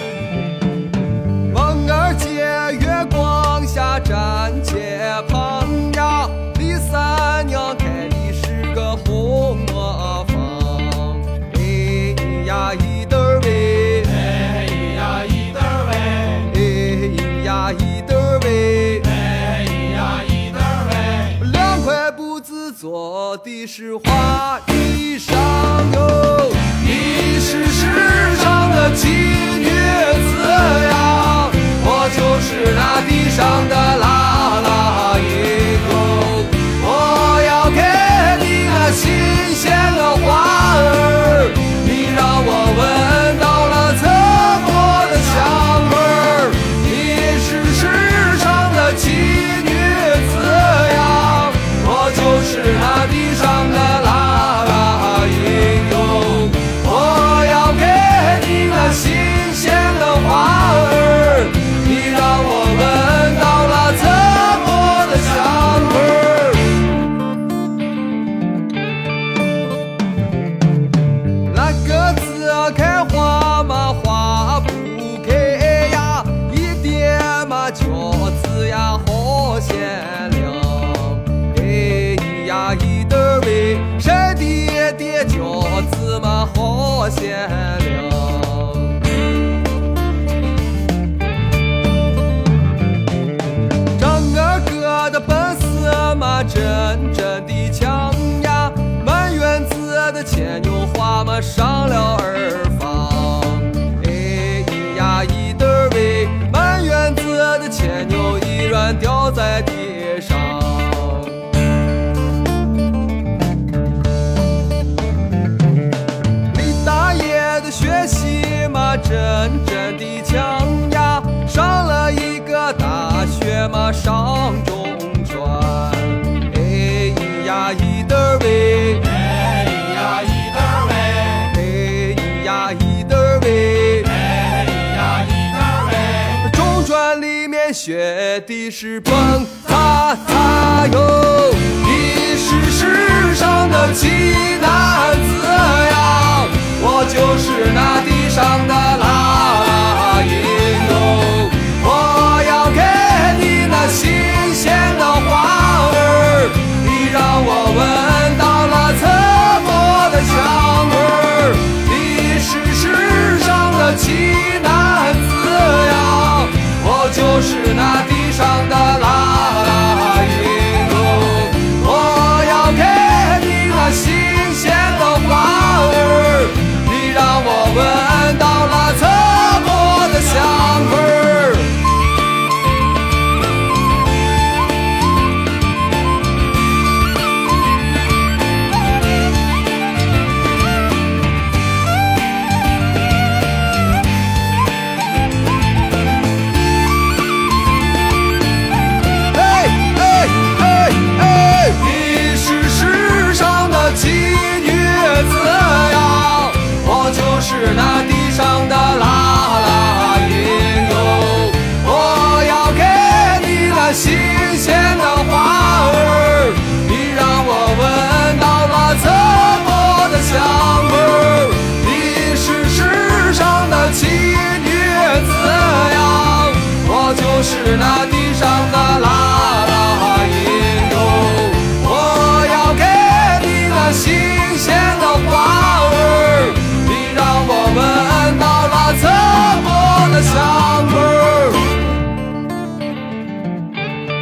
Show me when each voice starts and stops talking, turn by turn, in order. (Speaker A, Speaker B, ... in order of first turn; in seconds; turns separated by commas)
Speaker A: 1.5-66.8, Speaker A: 71.5-89.0, Speaker A: 93.9-111.4, Speaker A: 116.5-181.7, Speaker A: 199.3-241.8